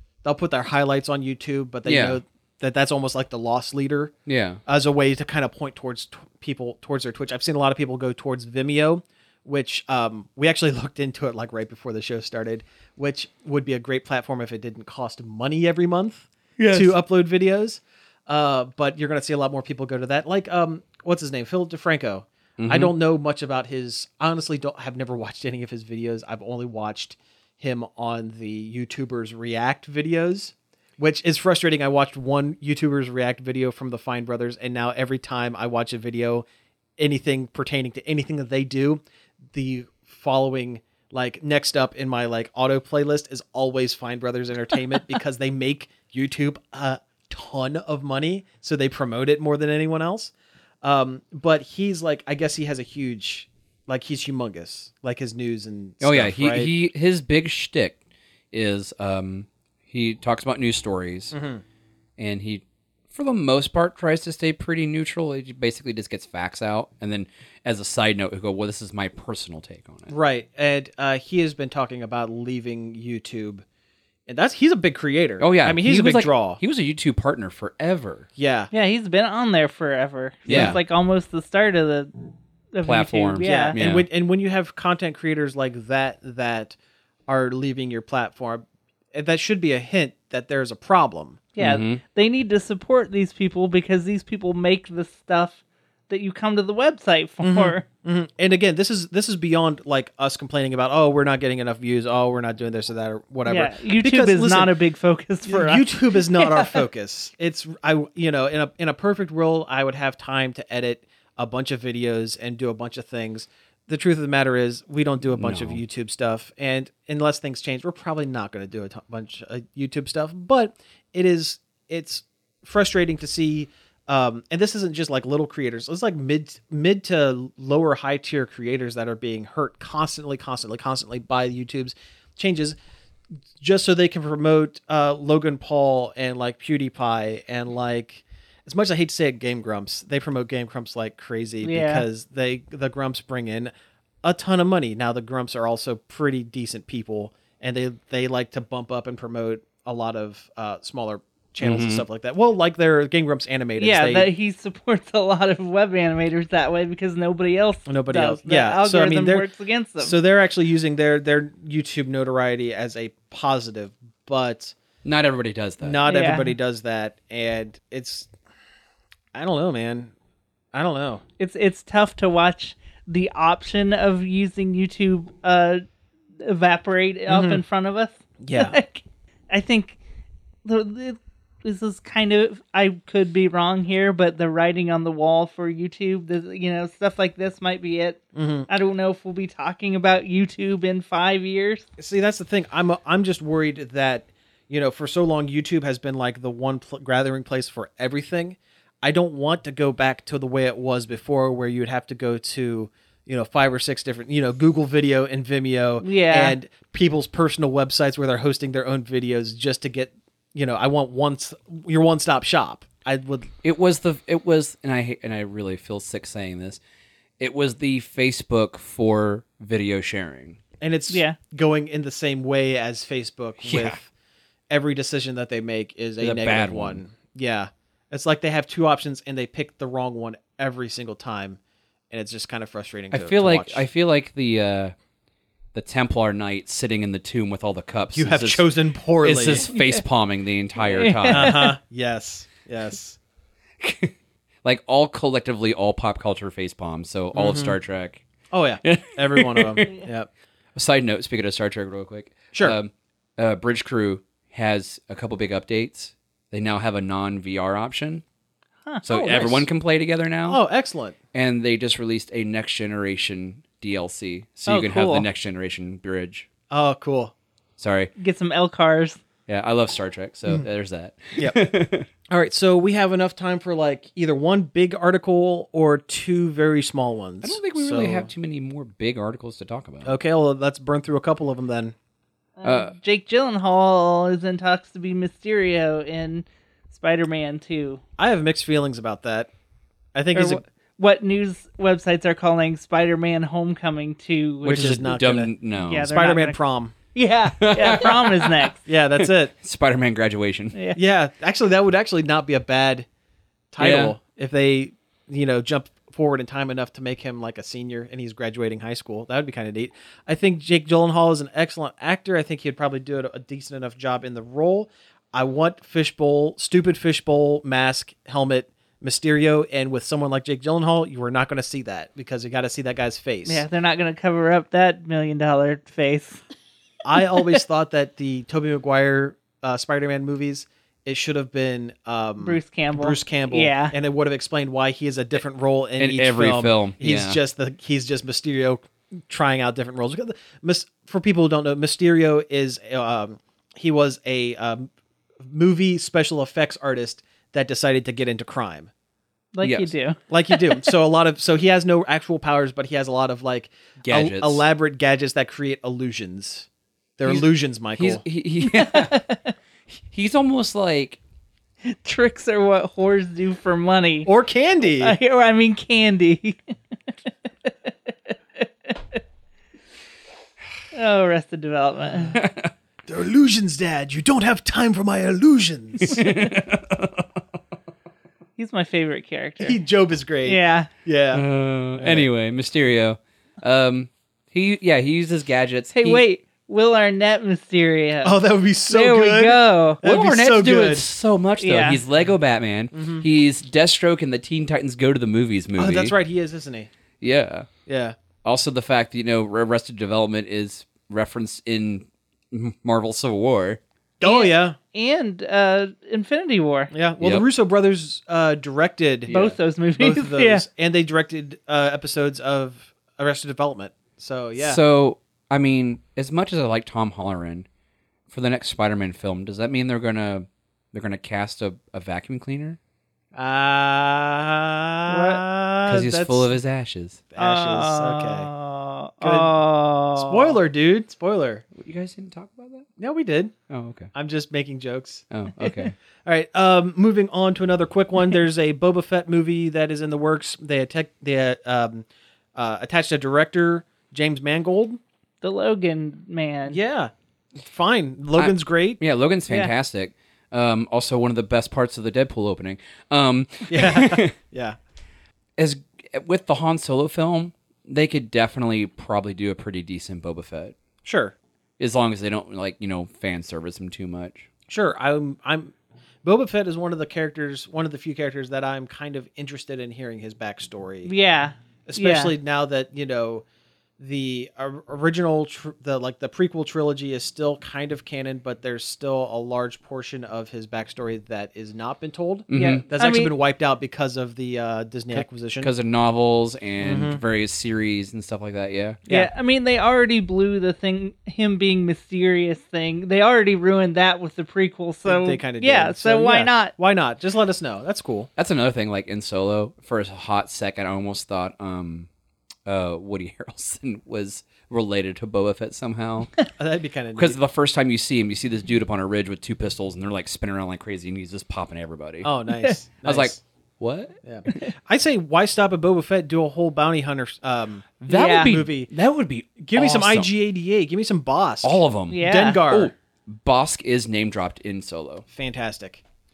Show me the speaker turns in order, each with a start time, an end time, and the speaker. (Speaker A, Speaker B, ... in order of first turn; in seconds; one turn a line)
Speaker A: 0.2-4.1
Speaker B: 1.9-2.2
Speaker B: 4.3-4.6
Speaker A: 4.7-36.5
Speaker B: 16.6-16.9
Speaker B: 22.6-22.9
Speaker A: 37.0-39.0
Speaker A: 39.5-56.7
Speaker B: 56.0-58.0
Speaker B: 58.5-61.3
Speaker A: 61.3-61.6
Speaker B: 62.2-70.1
Speaker A: 70.1-73.6
Speaker A: 74.3-76.6
Speaker B: 75.4-78.3
Speaker A: 78.4-78.7
Speaker C: 78.7-82.1
Speaker B: 80.5-80.8
Speaker A: 80.5-80.8
Speaker C: 82.7-83.8
Speaker B: 82.8-84.1
Speaker A: 83.4-86.8
Speaker A: 87.3-91.4
Speaker C: 91.6-97.8
Speaker B: 91.6-92.0
Speaker A: 97.4-104.7
Speaker C: 103.5-106.8
Speaker A: 105.5-132.8
Speaker B: 115.3-115.8
Speaker A: 133.6-143.7
Speaker C: 141.6-142.1
Speaker A: 144.2-154.3
Speaker B: 151.6-152.1
Speaker C: 153.8-160.2
Speaker A: 157.9-159.5
Speaker A: 160.0-164.8
Speaker B: 165.0-166.0
Speaker A: 165.8-168.3
Speaker C: 166.1-166.5
Speaker A: 169.3-170.1
Speaker A: 170.7-171.2
Speaker C: 171.4-175.8
Speaker C: 176.4-180.0
Speaker A: 177.3-177.6
Speaker A: 178.4-178.8
Speaker C: 180.7-191.9
Speaker A: 188.3-188.7
Speaker A: 192.0-213.5
Speaker C: 206.0-206.6
Speaker B: 213.6-216.8
Speaker B: 217.4-220.6
Speaker A: 220.8-224.1
Speaker C: 221.1-221.4
Speaker B: 223.6-224.0
Speaker A: 224.7-231.6
Speaker B: 226.2-227.0
Speaker A: 232.1-233.8
Speaker B: 233.1-234.9
Speaker B: 235.7-238.7
Speaker A: 238.1-239.7
Speaker B: 239.2-241.6
Speaker C: 239.7-240.0
Speaker C: 240.8-241.7
Speaker A: 241.3-243.2
Speaker B: 243.8-248.2
Speaker A: 247.3-247.8
Speaker A: 248.5-250.3
Speaker B: 248.8-249.9
Speaker B: 250.8-258.2
Speaker C: 258.9-259.6
Speaker B: 259.1-260.6
Speaker A: 259.2-259.5
Speaker A: 260.5-261.2
Speaker B: 261.3-266.5
Speaker C: 264.7-265.3
Speaker A: 266.7-267.3
Speaker B: 267.8-268.1
Speaker C: 268.2-269.2
Speaker B: 269.5-272.1
Speaker A: 272.3-278.3
Speaker B: 277.4-280.1
Speaker A: 280.0-281.9
Speaker C: 282.6-288.0
Speaker B: 282.6-282.9
Speaker A: 288.2-289.5
Speaker A: 290.1-290.6
Speaker C: 290.3-295.0
Speaker A: 294.6-296.9
Speaker B: 294.7-296.1
Speaker C: 295.8-296.6
Speaker C: 297.1-298.9
Speaker B: 297.6-298.7
Speaker A: 298.9-299.5
Speaker B: 299.2-300.8
Speaker C: 300.7-301.0
Speaker A: 300.9-303.1
Speaker A: 303.7-323.7
Speaker B: 303.8-304.2
Speaker C: 323.5-326.4
Speaker A: 327.1-348.9
Speaker C: 327.2-327.6
Speaker C: 332.4-333.9
Speaker B: 336.0-337.4
Speaker C: 349.5-350.9
Speaker B: 349.6-349.9
Speaker A: 350.3-356.7
Speaker B: 354.1-354.6
Speaker A: 357.2-358.2
Speaker B: 357.3-359.2
Speaker C: 358.6-359.5
Speaker B: 359.9-361.2
Speaker C: 361.8-364.3
Speaker A: 364.3-365.2
Speaker C: 365.0-366.7
Speaker C: 367.3-369.2
Speaker C: 370.9-372.4
Speaker B: 372.4-372.7
Speaker A: 373.1-376.2
Speaker B: 376.0-377.3
Speaker C: 378.6-379.8
Speaker A: 379.6-381.4
Speaker C: 380.4-380.9
Speaker B: 381.3-386.2
Speaker A: 382.0-382.3
Speaker C: 385.9-390.0
Speaker A: 388.2-391.1
Speaker B: 390.0-396.1
Speaker C: 391.6-392.0
Speaker A: 392.9-393.3
Speaker A: 395.8-396.9
Speaker B: 397.2-397.7
Speaker A: 397.9-398.2
Speaker B: 398.4-403.8
Speaker A: 404.2-404.8
Speaker C: 404.2-406.9
Speaker A: 406.9-409.3
Speaker B: 407.2-407.4
Speaker B: 409.3-409.6
Speaker C: 409.3-410.6
Speaker A: 410.0-414.8
Speaker B: 414.6-417.7
Speaker B: 418.3-422.8
Speaker A: 423.4-426.5
Speaker C: 425.1-425.4
Speaker B: 425.9-427.2
Speaker A: 427.3-428.5
Speaker C: 427.4-430.6
Speaker A: 429.2-429.6
Speaker A: 430.1-431.6
Speaker B: 431.7-432.9
Speaker A: 433.0-433.5
Speaker B: 433.7-434.1
Speaker A: 434.1-435.2
Speaker B: 435.3-435.9
Speaker C: 435.6-435.9
Speaker A: 436.2-445.0
Speaker C: 445.4-446.8
Speaker A: 446.7-449.0
Speaker B: 448.4-454.4
Speaker A: 453.7-454.8
Speaker B: 455.6-460.8
Speaker A: 461.0-461.4
Speaker B: 461.8-464.5
Speaker A: 464.7-465.7
Speaker A: 466.2-471.1
Speaker C: 471.1-472.4
Speaker A: 471.9-473.4
Speaker A: 474.0-485.7
Speaker B: 482.5-482.8
Speaker C: 482.5-483.3
Speaker B: 485.1-489.0
Speaker A: 486.8-487.2
Speaker A: 489.1-489.3
Speaker C: 489.1-496.7
Speaker A: 495.1-498.3
Speaker B: 498.4-502.1
Speaker B: 502.7-506.3
Speaker A: 506.6-507.4
Speaker B: 507.2-512.3
Speaker A: 512.2-513.4
Speaker B: 513.0-514.2
Speaker A: 514.2-518.9
Speaker B: 518.0-520.3
Speaker C: 518.1-518.6
Speaker A: 519.6-522.9
Speaker B: 521.6-525.2
Speaker C: 522.1-522.6
Speaker A: 525.3-526.0